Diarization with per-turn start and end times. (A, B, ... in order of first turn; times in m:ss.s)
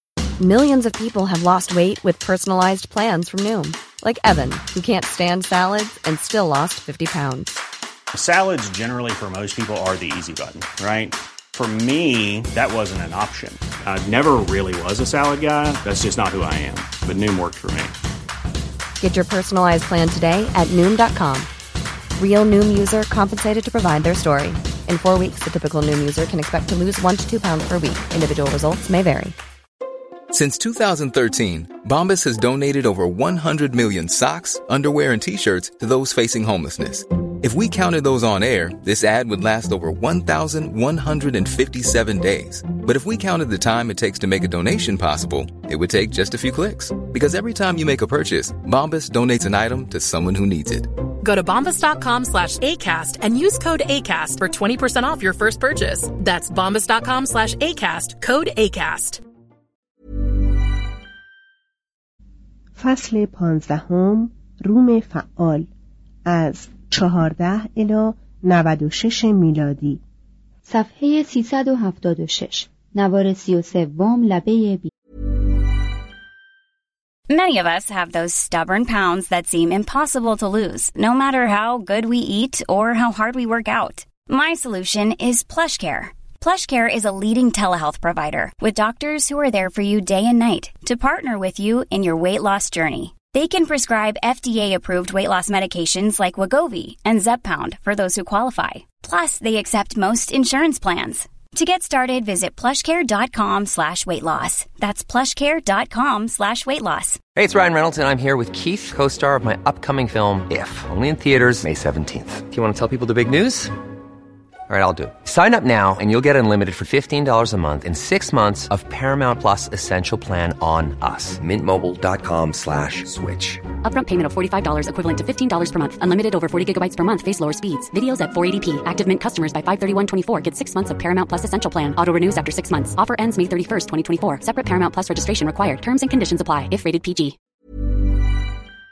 0:00.4-0:07.6 A
0:08.1-0:17.9 B
0:19.0-0:21.5 A
0:22.2-0:29.4 A
0:30.3-0:50.9 C
0:51.2-0:59.2 D
1:02.8-1:05.7 E
1:06.2-1:10.0 E
1:10.6-1:14.9 F
1:17.3-1:47.2 G
1:47.3-1:53.7 H
1:54.7-2:03.7 H
2:03.8-2:17.4 I